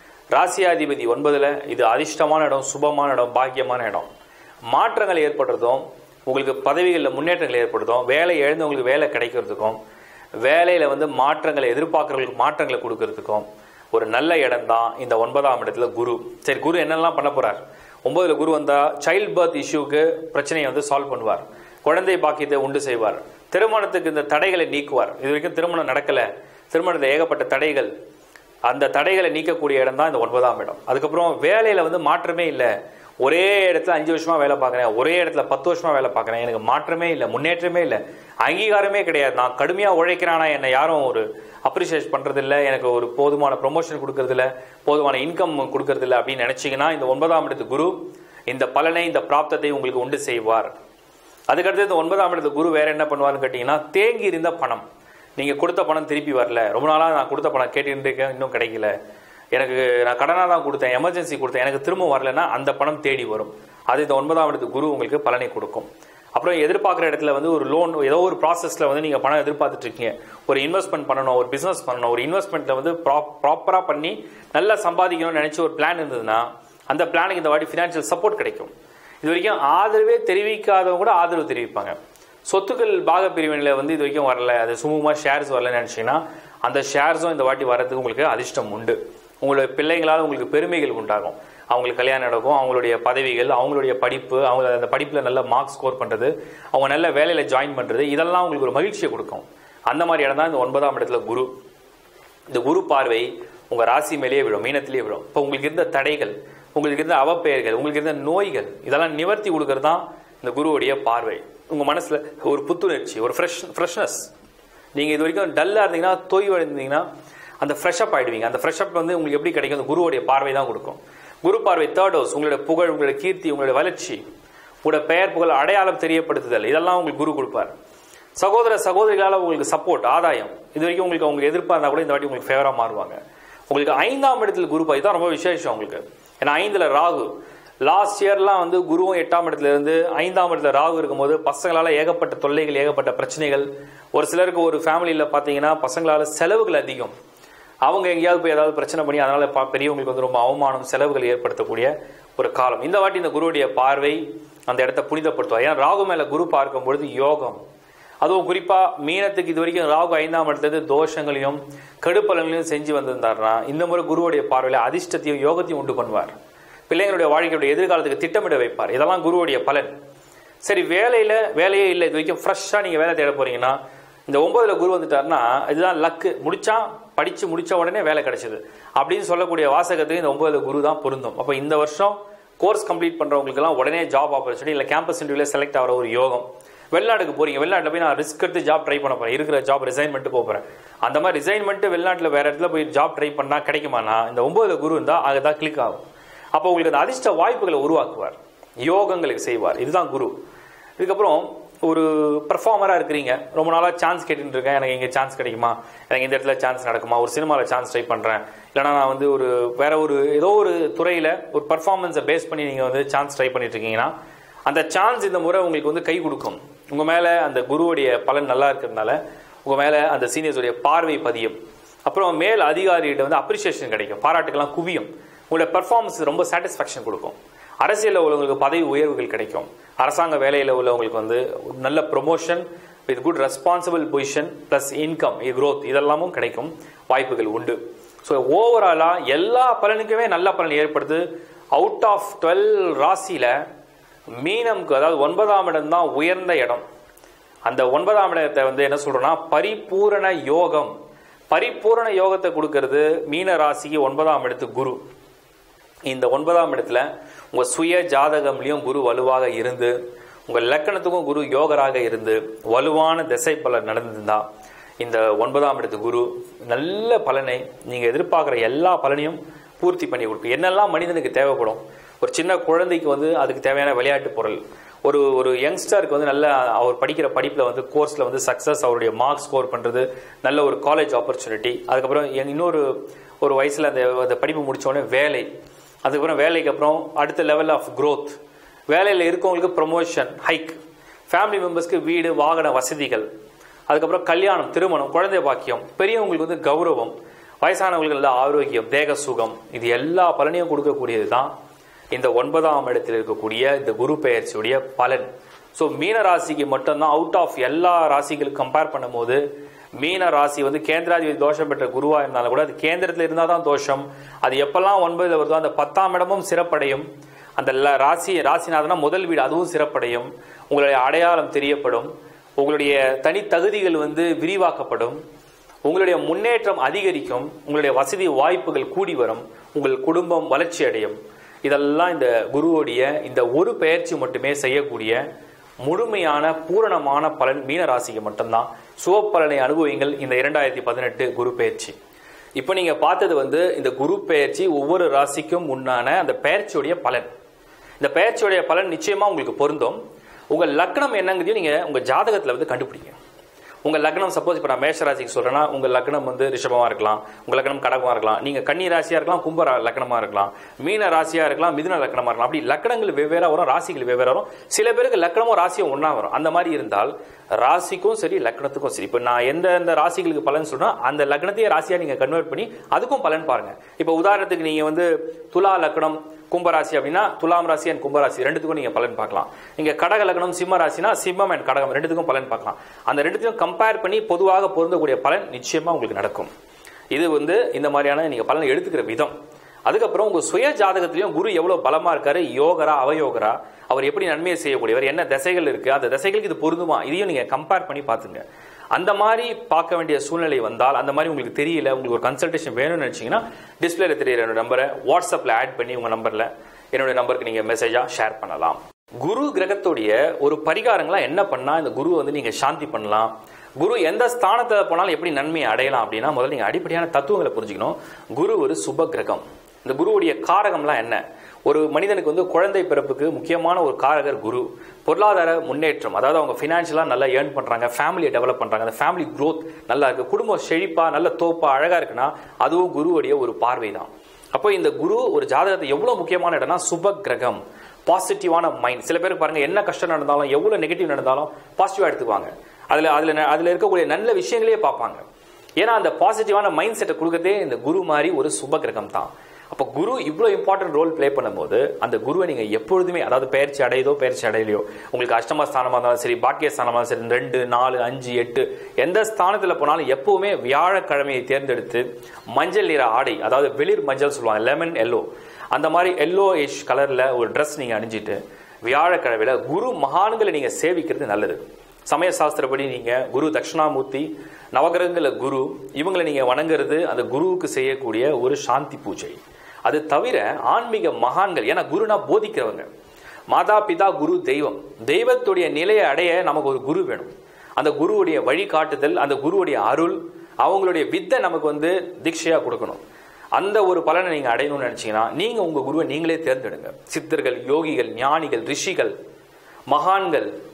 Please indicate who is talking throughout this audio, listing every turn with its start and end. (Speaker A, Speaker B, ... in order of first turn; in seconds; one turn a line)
Speaker A: 0.3-4.1
Speaker A: 4.7-9.8
Speaker A: 10.4-27.9
Speaker A: 28.7-48.0
Speaker A: 48.5-50.7
Speaker A: 51.5-54.9
Speaker A: 55.4-58.9
Speaker A: 59.5-82.0
Speaker A: 82.5-101.5
Speaker A: 102.5-114.3
Speaker A: 115.0-117.1
Speaker A: 117.6-124.2
Speaker A: 124.8-127.7
Speaker A: 128.4-133.2
Speaker A: 133.7-137.3
Speaker A: 137.9-147.1
Speaker A: 147.9-157.6
Speaker A: 158.2-166.3
Speaker A: 166.9-169.9
Speaker A: 170.6-173.8
Speaker A: 174.3-196.0
Speaker A: 196.5-200.3
Speaker A: 201.0-214.1
Speaker A: 214.7-243.6
Speaker A: 244.4-246.8
Speaker A: 247.7-250.9
Speaker A: 251.5-255.0
Speaker A: 256.1-259.9
Speaker A: 260.5-264.4
Speaker A: 265.0-285.5
Speaker A: 286.1-288.4
Speaker A: 288.9-293.3
Speaker A: 293.9-301.5
Speaker A: 302.1-309.4
Speaker A: 310.0-317.1
Speaker A: 317.6-325.2
Speaker A: 325.9-335.2
Speaker A: 335.8-341.9
Speaker A: 342.6-347.3
Speaker A: 348.0-350.0
Speaker A: 350.5-353.2
Speaker A: 353.8-386.5
Speaker A: 387.1-389.4
Speaker A: 389.9-398.4
Speaker A: 398.9-445.2
Speaker A: 445.8-482.9
Speaker A: 483.5-493.0
Speaker A: 493.6-499.1
Speaker A: 499.9-500.5